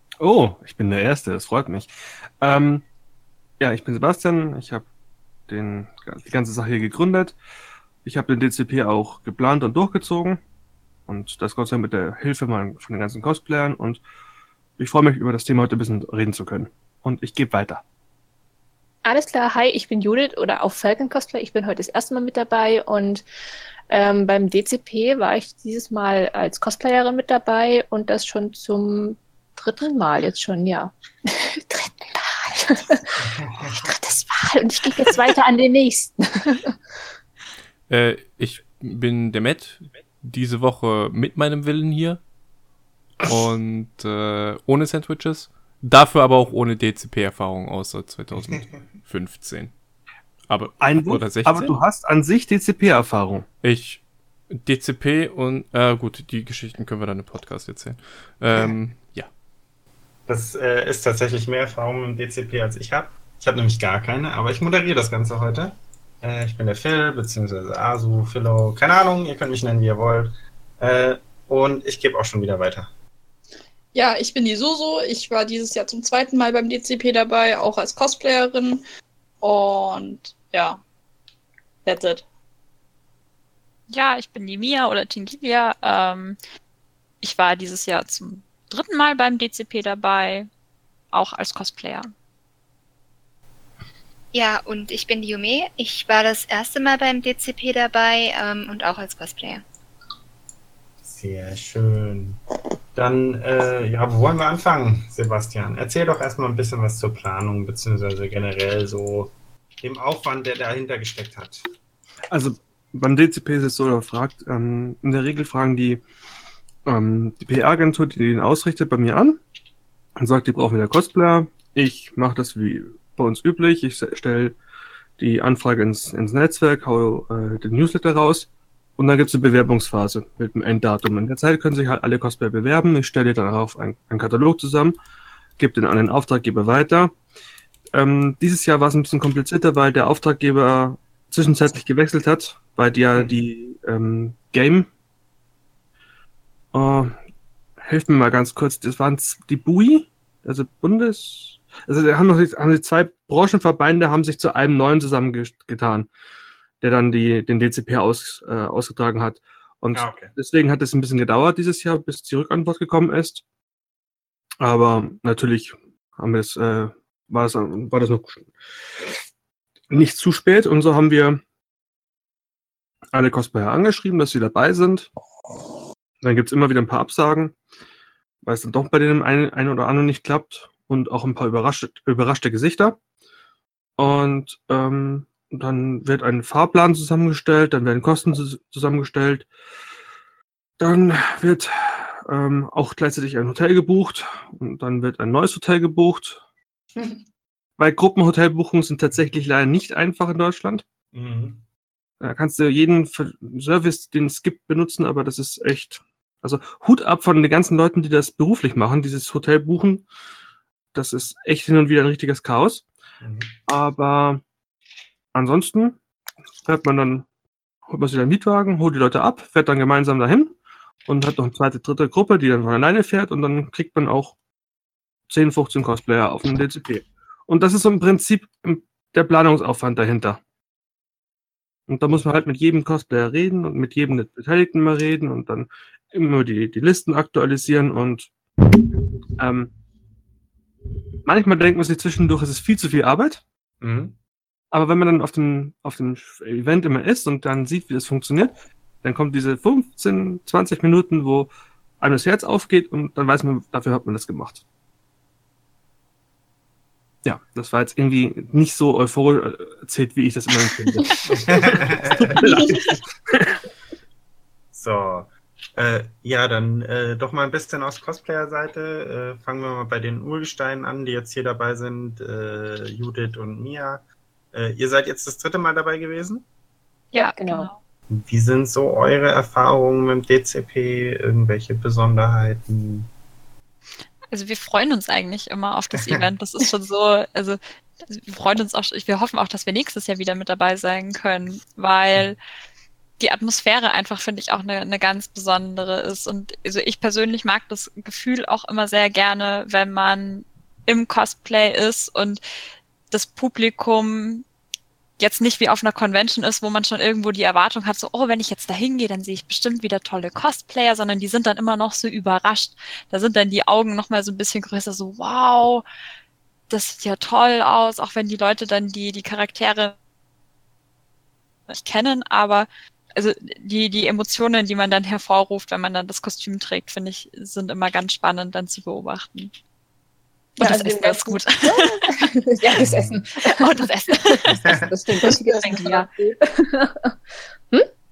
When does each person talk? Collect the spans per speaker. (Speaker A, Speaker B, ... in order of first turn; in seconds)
Speaker A: 0.2-2.8, 3.6-4.8, 5.5-7.3, 8.0-10.4, 11.1-14.0, 14.8-17.8, 50.8-53.5, 112.3-116.0, 116.8-119.4, 120.2-124.6, 125.2-134.9, 135.6-137.1, 137.9-144.9, 146.7-147.2, 147.8-156.1, 156.8-163.4, 164.6-168.5, 169.9-171.4, 173.1-175.1, 176.2-177.5, 178.4-183.0, 184.0-189.5, 190.8-196.4, 197.8-200.8, 202.2-210.1, 210.9-212.8, 213.7-214.4, 215.3-216.0, 216.6-217.2, 217.9-224.4, 225.3-230.4, 231.9-238.3, 239.4-239.7, 241.2-243.4, 244.7-254.6, 257.2-261.1, 262.1-263.6
Speaker B: 19.1-23.2, 23.9-36.7, 277.1-277.7, 330.6-337.1
Speaker C: 33.2-33.8, 48.3-48.8, 60.3-72.9, 101.0-102.4, 102.9-111.7, 159.9-160.3, 201.1-201.6, 213.2-213.6, 243.8-244.2, 261.3-262.4, 264.7-276.4, 278.1-283.1, 285.9-286.2, 332.8-333.2, 334.5-334.9
Speaker D: 37.9-42.2, 43.2-49.7, 50.5-51.8, 53.6-59.3
Speaker E: 73.9-78.8, 79.4-80.8, 81.8-82.2, 335.3-336.0
Speaker F: 83.9-86.4, 87.2-90.5, 91.1-92.1, 277.1-277.8, 284.3-292.4, 293.2-302.4, 303.1-304.4, 305.2-315.8, 316.7-319.9, 321.7-329.5, 330.6-332.9, 333.4-334.5, 335.2-336.1
Speaker G: 94.3-99.6